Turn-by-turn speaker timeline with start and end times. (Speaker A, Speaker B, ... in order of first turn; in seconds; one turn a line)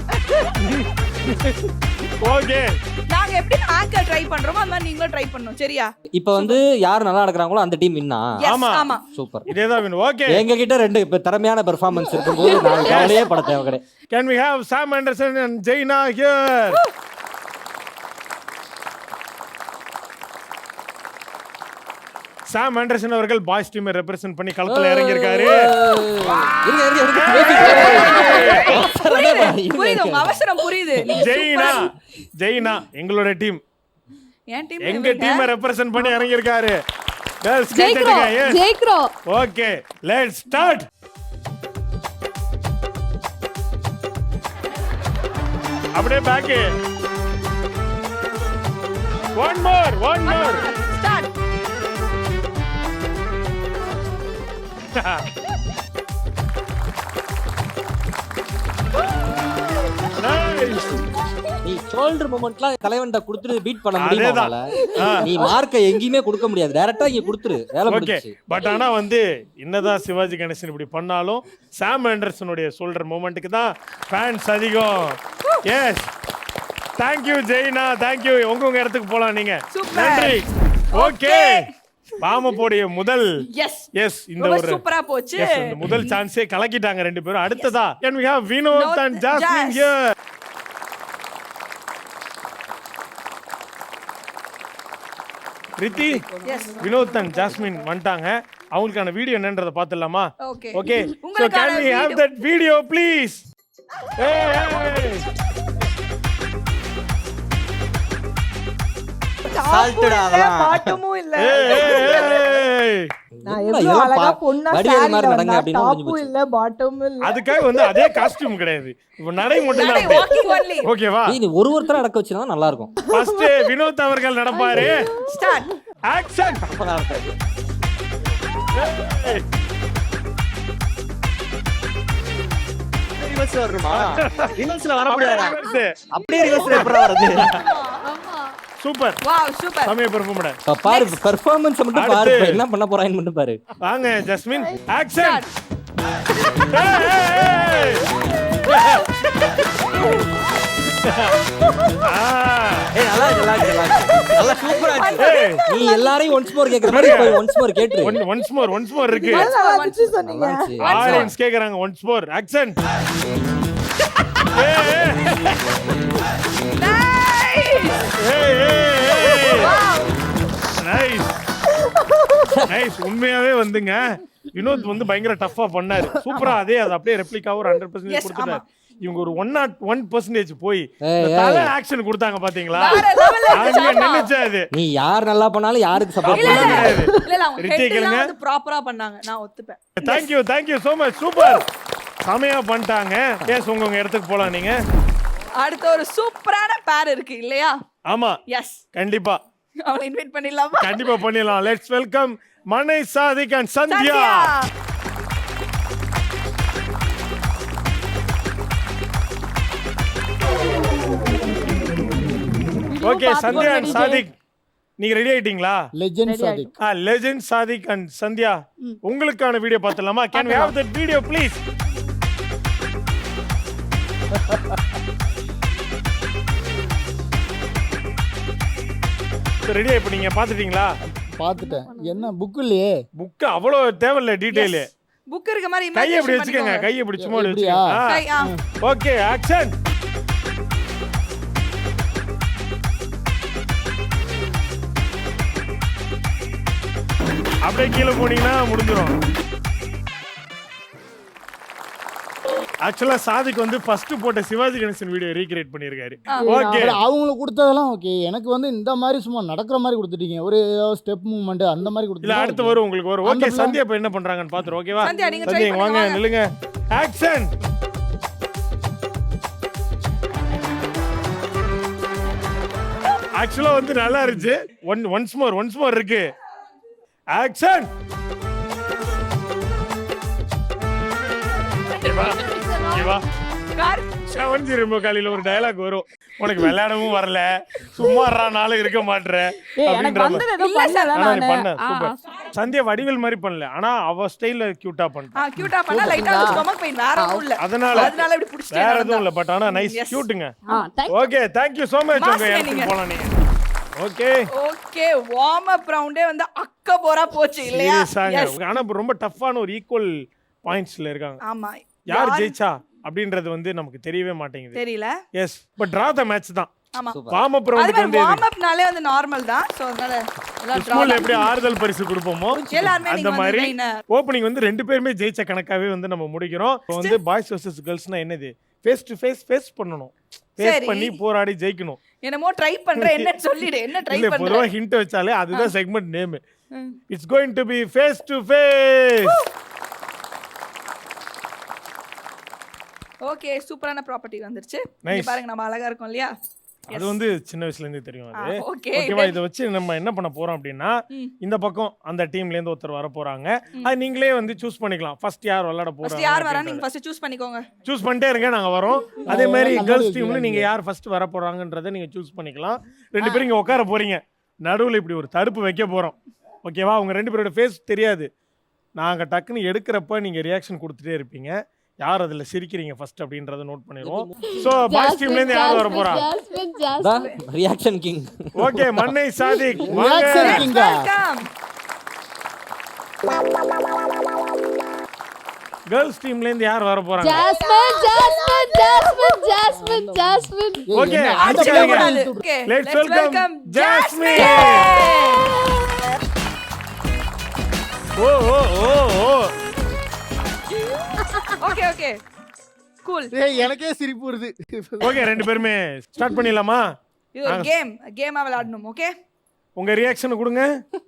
Speaker A: 0.2-0.6
Speaker B: 0.6-2.8
Speaker A: 3.1-5.9
Speaker C: 6.2-8.4
Speaker A: 8.4-9.0
Speaker B: 8.5-8.9
Speaker C: 9.1-9.6
Speaker B: 9.5-10.4
Speaker C: 10.3-13.8
Speaker D: 12.4-13.1
Speaker B: 12.8-13.3
Speaker B: 14.1-16.8
Speaker B: 22.5-25.7
Speaker C: 24.7-31.1
Speaker A: 26.2-26.6
Speaker B: 27.1-28.7
Speaker A: 27.3-31.8
Speaker B: 31.1-33.6
Speaker A: 34.5-35.5
Speaker B: 34.8-36.8
Speaker B: 37.4-38.6
Speaker D: 37.7-39.1
Speaker B: 39.3-40.9
Speaker B: 46.0-46.7
Speaker B: 49.4-50.6
Speaker A: 50.2-51.3
Speaker B: 54.9-55.3
Speaker B: 60.2-61.0
Speaker C: 61.6-64.6
Speaker B: 64.0-65.5
Speaker C: 65.2-68.3
Speaker B: 67.9-76.1
Speaker B: 77.0-81.7
Speaker A: 79.7-80.3
Speaker A: 80.9-81.7
Speaker B: 82.2-83.3
Speaker A: 83.5-86.1
Speaker B: 84.0-84.8
Speaker B: 85.4-90.0
Speaker A: 88.7-89.9
Speaker B: 95.8-96.3
Speaker E: 95.9-97.8
Speaker A: 96.4-96.8
Speaker B: 96.8-103.5
Speaker A: 100.4-102.2
Speaker B: 104.2-105.3
Speaker E: 109.5-112.5
Speaker C: 109.7-111.0
Speaker B: 111.4-113.1
Speaker A: 111.7-112.4
Speaker C: 113.4-116.3
Speaker E: 113.5-118.4
Speaker B: 117.2-120.3
Speaker A: 119.7-120.9
Speaker B: 120.8-121.4
Speaker C: 121.3-122.9
Speaker E: 123.0-123.7
Speaker B: 123.1-125.1
Speaker D: 124.6-125.0
Speaker A: 125.2-125.7
Speaker B: 126.1-126.7
Speaker C: 126.6-127.3
Speaker B: 128.7-129.4
Speaker C: 133.2-135.6
Speaker B: 133.9-137.6
Speaker C: 136.1-137.5
Speaker A: 136.5-136.7
Speaker A: 137.3-138.0
Speaker D: 138.0-138.5
Speaker B: 138.8-139.2
Speaker A: 139.2-139.9
Speaker B: 139.9-140.6
Speaker C: 140.7-143.6
Speaker A: 140.9-141.2
Speaker B: 141.9-142.6
Speaker B: 143.8-145.4
Speaker A: 145.2-145.5
Speaker B: 146.7-148.1
Speaker B: 148.6-149.5
Speaker B: 151.1-151.3
Speaker B: 152.0-152.9
Speaker C: 152.9-158.2
Speaker A: 154.2-155.9
Speaker B: 155.2-155.6
Speaker B: 156.9-157.4
Speaker B: 158.0-159.5
Speaker E: 159.1-160.8
Speaker A: 159.3-160.1
Speaker C: 160.2-161.3
Speaker A: 160.8-161.3
Speaker B: 160.8-162.8
Speaker B: 164.5-165.6
Speaker A: 166.7-168.1
Speaker B: 168.2-169.7
Speaker A: 169.2-169.9
Speaker E: 169.5-170.0
Speaker B: 170.8-171.3
Speaker B: 172.7-184.7
Speaker A: 176.3-176.6
Speaker A: 178.1-178.6
Speaker C: 181.1-181.7
Speaker A: 182.8-184.3
Speaker E: 183.4-183.8
Speaker C: 184.7-187.0
Speaker B: 186.2-188.3
Speaker A: 186.3-190.3
Speaker B: 190.0-191.7
Speaker B: 192.2-194.8
Speaker A: 195.6-197.8
Speaker B: 198.1-198.4
Speaker A: 198.5-198.8
Speaker B: 198.9-199.4
Speaker A: 199.8-201.1
Speaker B: 200.8-204.5
Speaker A: 203.9-204.7
Speaker E: 212.9-214.3
Speaker B: 213.0-214.3
Speaker B: 215.0-215.9
Speaker F: 216.0-216.7
Speaker E: 216.3-216.7
Speaker B: 216.8-221.6
Speaker E: 220.3-220.8
Speaker B: 229.7-231.0
Speaker F: 231.4-232.9
Speaker E: 231.6-232.2
Speaker B: 233.2-234.9
Speaker A: 234.5-236.9
Speaker B: 235.9-238.3
Speaker F: 237.2-238.6
Speaker A: 238.1-238.5
Speaker B: 238.8-239.8
Speaker B: 247.7-249.2
Speaker B: 252.8-257.0
Speaker A: 256.3-256.6
Speaker E: 256.5-256.7
Speaker F: 256.5-263.8
Speaker B: 262.2-267.5
Speaker A: 265.0-266.2
Speaker B: 273.4-276.3
Speaker B: 277.3-277.9
Speaker B: 282.0-283.2
Speaker A: 282.0-282.6
Speaker A: 283.7-284.4
Speaker B: 284.3-290.5
Speaker E: 289.8-292.4
Speaker A: 290.6-291.2
Speaker B: 291.1-295.4
Speaker A: 295.4-300.2
Speaker E: 295.9-296.6
Speaker E: 297.2-297.5
Speaker B: 297.6-300.6
Speaker E: 300.7-301.3
Speaker B: 301.1-303.3
Speaker A: 302.2-302.9
Speaker B: 304.0-304.5
Speaker A: 304.5-308.6
Speaker B: 307.7-311.4
Speaker A: 311.4-312.6
Speaker B: 312.1-314.8
Speaker A: 314.8-315.1
Speaker B: 315.3-316.7
Speaker A: 316.9-317.2
Speaker C: 317.1-317.4
Speaker B: 317.3-318.4
Speaker A: 317.8-321.4
Speaker B: 320.7-332.0
Speaker A: 322.7-324.0
Speaker A: 326.9-327.2
Speaker A: 330.6-331.2
Speaker A: 332.2-334.7
Speaker B: 333.0-333.3
Speaker B: 334.1-336.4
Speaker B: 337.1-339.4
Speaker A: 343.3-346.3
Speaker B: 345.1-345.4
Speaker B: 346.9-356.8
Speaker A: 346.9-347.2
Speaker A: 348.4-349.4
Speaker A: 356.0-357.6
Speaker B: 357.9-368.3
Speaker F: 359.3-360.7
Speaker B: 369.0-376.3
Speaker C: 374.0-374.3
Speaker D: 374.4-377.3
Speaker C: 377.0-379.1
Speaker B: 378.6-380.7
Speaker F: 379.9-381.1
Speaker A: 380.4-381.5
Speaker B: 385.9-387.5
Speaker D: 387.2-391.0
Speaker E: 387.4-389.5
Speaker F: 389.7-392.4
Speaker B: 390.9-392.1
Speaker A: 391.4-395.6
Speaker B: 392.7-395.0
Speaker B: 398.2-399.5
Speaker A: 401.6-402.2
Speaker A: 403.0-403.3
Speaker F: 403.3-405.4
Speaker B: 405.0-406.9
Speaker A: 407.4-409.1
Speaker B: 409.8-410.7